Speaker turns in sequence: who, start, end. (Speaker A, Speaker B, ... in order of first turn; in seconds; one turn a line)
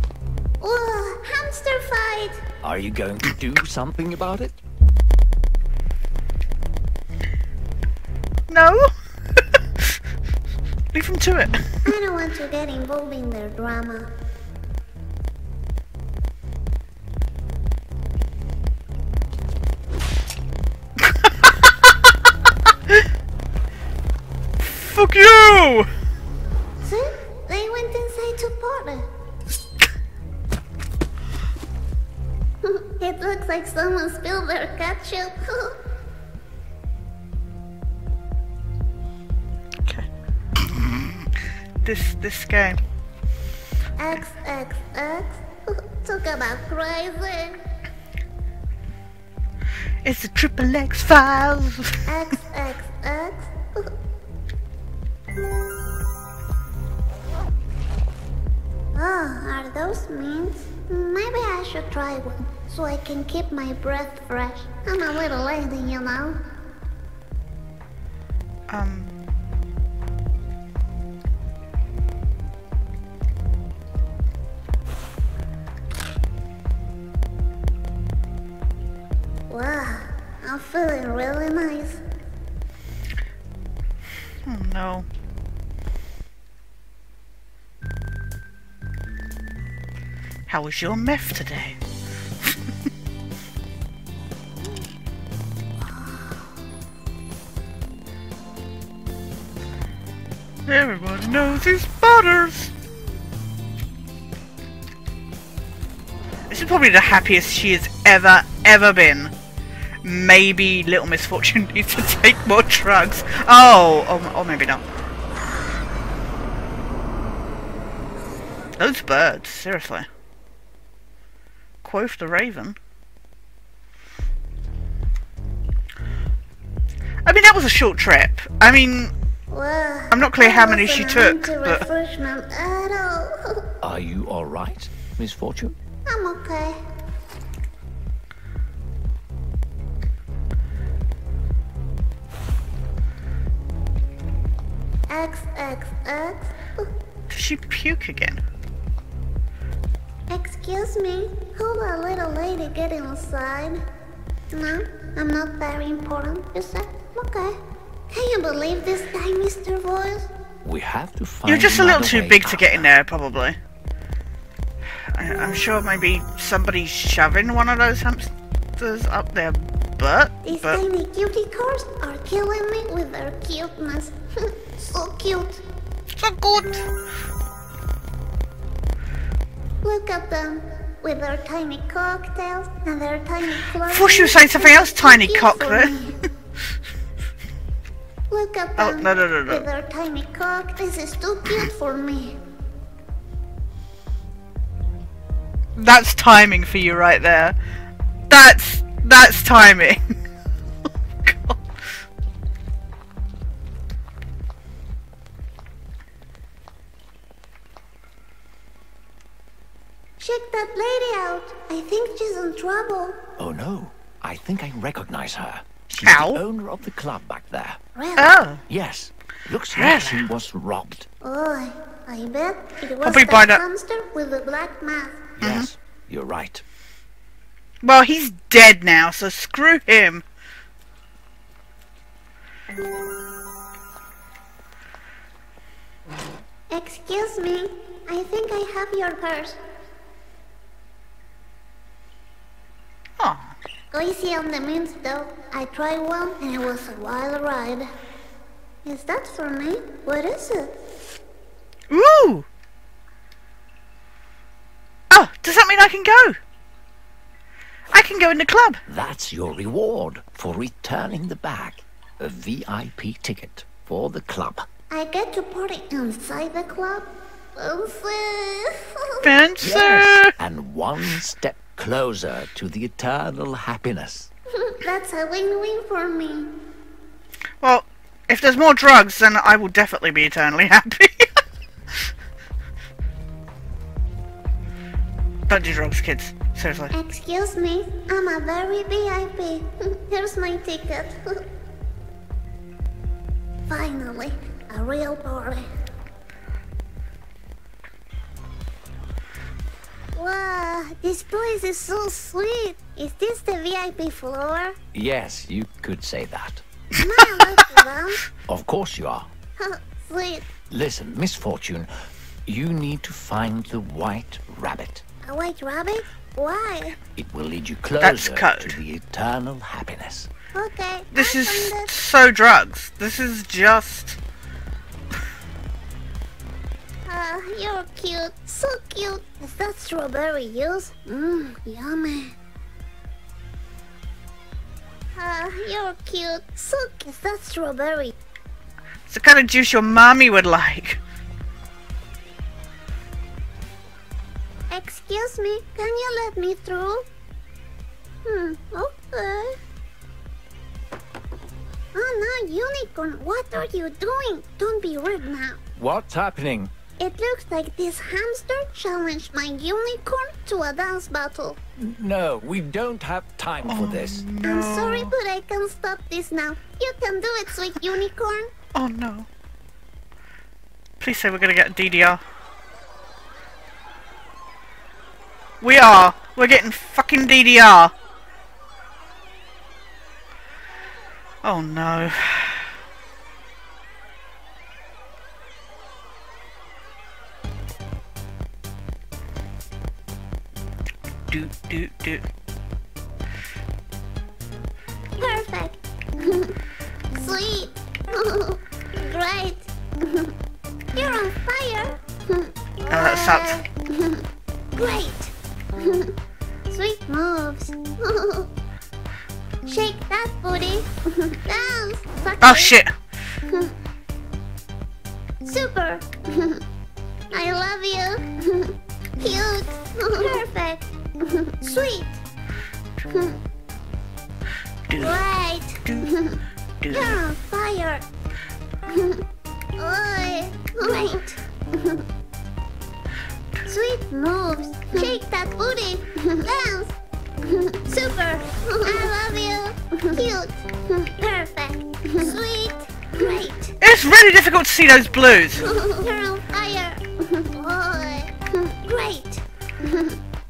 Speaker A: 0.6-2.4
Speaker B: 2.6-4.6
Speaker C: 8.5-9.9
Speaker C: 10.9-11.8
Speaker A: 11.9-14.1
Speaker C: 24.6-25.9
Speaker A: 26.9-29.1
Speaker A: 32.6-35.8
Speaker C: 39.9-41.2
Speaker C: 41.8-42.8
Speaker A: 44.0-47.6
Speaker C: 50.0-52.0
Speaker A: 52.1-53.9
Speaker A: 59.0-66.4
Speaker C: 68.7-69.1
Speaker A: 79.5-82.0
Speaker C: 84.5-85.1
Speaker C: 90.5-91.8
Speaker C: 100.7-102.7
Speaker C: 106.5-109.3
Speaker C: 110.0-114.8
Speaker C: 118.8-120.1
Speaker C: 121.8-122.8
Speaker C: 127.2-129.1
Speaker A: 129.5-133.7
Speaker C: 130.1-131.8
Speaker B: 133.8-135.8
Speaker A: 136.1-136.8
Speaker A: 145.1-146.9
Speaker C: 147.3-148.4
Speaker A: 150.3-153.8
Speaker A: 154.5-157.6
Speaker A: 158.1-160.3
Speaker B: 160.6-162.9
Speaker C: 161.5-163.6
Speaker C: 165.1-170.8
Speaker A: 170.4-175.6
Speaker C: 176.2-176.9
Speaker A: 179.8-186.2
Speaker C: 183.9-185.9
Speaker A: 188.3-192.4
Speaker C: 188.8-189.7
Speaker C: 195.8-197.6
Speaker C: 198.3-200.0
Speaker C: 201.2-201.6
Speaker A: 210.2-213.2
Speaker B: 213.4-217.8
Speaker C: 216.0-216.4
Speaker A: 218.0-218.4
Speaker C: 218.2-218.6
Speaker B: 218.7-221.1
Speaker C: 219.7-220.3
Speaker A: 221.2-225.3
Speaker C: 223.0-223.6
Speaker C: 225.4-225.7
Speaker B: 225.4-226.6
Speaker C: 227.8-230.2
Speaker A: 236.7-239.6
Speaker C: 243.2-243.5
Speaker A: 243.9-247.9
Speaker A: 248.8-250.7
Speaker C: 251.9-252.5
Speaker C: 255.1-256.4
Speaker C: 257.9-258.8
Speaker B: 258.9-264.7
Speaker A: 264.9-269.3
Speaker C: 269.2-270.3
Speaker B: 269.6-274.3
Speaker A: 274.5-276.5
Speaker C: 277.6-281.3
Speaker C: 285.5-286.9
Speaker A: 286.9-291.4
Speaker A: 293.7-295.7
Speaker A: 300.1-304.8
Speaker B: 304.9-306.6
Speaker A: 306.9-308.2
Speaker C: 307.2-307.7
Speaker B: 308.5-309.3
Speaker A: 309.6-310.5
Speaker B: 310.7-315.0
Speaker A: 315.2-317.0
Speaker B: 317.2-320.3
Speaker C: 318.0-318.8
Speaker A: 320.5-321.9
Speaker C: 321.1-324.2
Speaker A: 327.1-332.4
Speaker A: 335.1-338.1
Speaker C: 339.1-341.0
Speaker A: 344.7-347.1
Speaker A: 348.2-349.6
Speaker A: 351.9-355.6
Speaker B: 355.8-356.7
Speaker A: 357.0-361.6
Speaker B: 361.8-364.2
Speaker C: 363.7-365.1
Speaker A: 364.4-368.5
Speaker C: 368.7-369.3
Speaker C: 371.0-372.2
Speaker C: 375.6-377.9
Speaker C: 381.4-382.7
Speaker C: 391.3-392.2
Speaker A: 395.2-396.6
Speaker A: 397.1-400.3
Speaker A: 400.9-404.2
Speaker C: 402.9-403.7
Speaker A: 404.8-406.1
Speaker A: 406.7-408.5
Speaker A: 409.6-412.8
Speaker C: 412.4-412.9
Speaker A: 413.5-413.7
Speaker A: 415.4-416.6
Speaker A: 417.3-422.2
Speaker A: 423.1-423.4
Speaker C: 424.9-425.2
Speaker A: 425.0-428.1
Speaker C: 426.8-427.2
Speaker A: 428.9-429.2
Speaker A: 429.8-432.0
Speaker C: 430.9-431.1
Speaker A: 433.7-443.8
Speaker C: 443.8-445.6
Speaker A: 445.6-450.2